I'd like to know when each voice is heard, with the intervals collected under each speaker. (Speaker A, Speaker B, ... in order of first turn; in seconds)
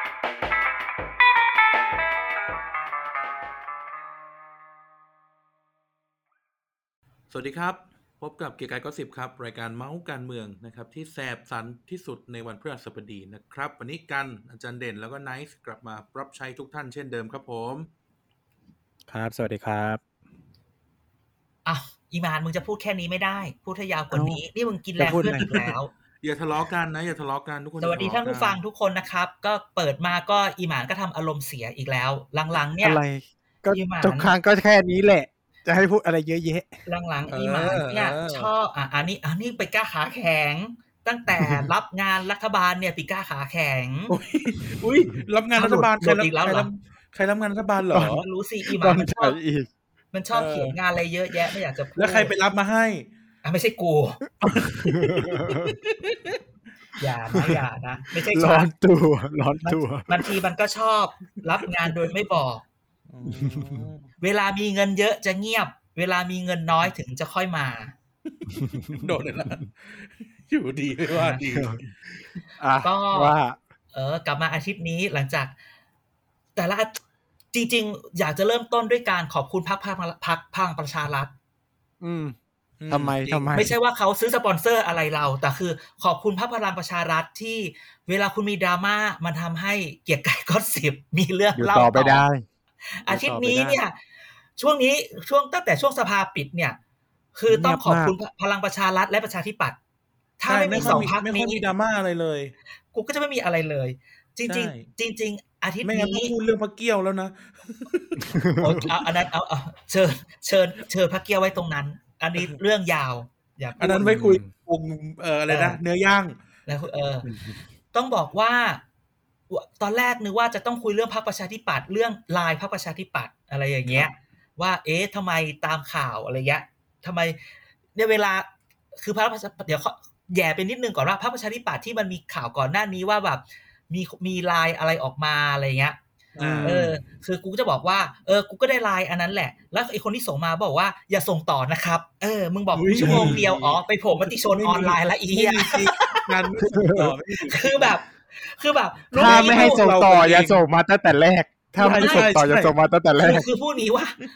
Speaker A: 7.3-17.9, 26.2-28.6, 37.3-38.5, 44.1-48.3, 50.3-50.8, 52.0-53.1, 54.6-56.4, 63.1-64.0, 68.3-71.8, 82.8-83.6, 100.5-102.5, 104.5-104.8, 105.8-108.2, 113.8-116.4, 136.3-136.8, 142.7-147.9, 149.1-150.6, 151.8-152.7
Speaker B: 19.1-20.0, 24.1-24.4, 25.0-25.7, 32.8-36.7, 41.4-41.7, 47.9-49.7, 54.4-55.8, 57.3-57.6, 58.3-60.4, 63.2-63.9, 68.5-69.0, 71.5-71.8, 72.6-73.6, 82.0-82.3, 82.9-83.7, 91.5-92.4, 93.1-93.8, 97.5-98.2, 100.7-101.1, 108.2-108.9, 114.0-114.5, 117.2-117.6, 136.4-136.9, 142.9-143.4, 146.6-147.1, 149.1-153.4
Speaker C: 21.6-25.9, 27.8-33.0, 33.7-34.3, 36.9-44.1, 45.5-46.7, 48.0-49.4, 50.1-52.3, 53.4-54.2, 57.0-58.7, 59.6-62.6, 64.2-67.9, 71.1-71.4, 72.8-73.3, 73.9-75.5, 76.5-77.0, 77.5-81.3, 83.5-92.2, 92.9-93.9, 94.6-96.8, 97.3-99.8, 100.4-101.6, 102.9-106.3, 108.6-114.1, 115.5-115.8, 116.7-117.3, 117.9-118.8, 119.5-127.4, 127.9-136.0, 136.6-146.5, 147.4-149.8, 151.8-152.3, 153.2-154.2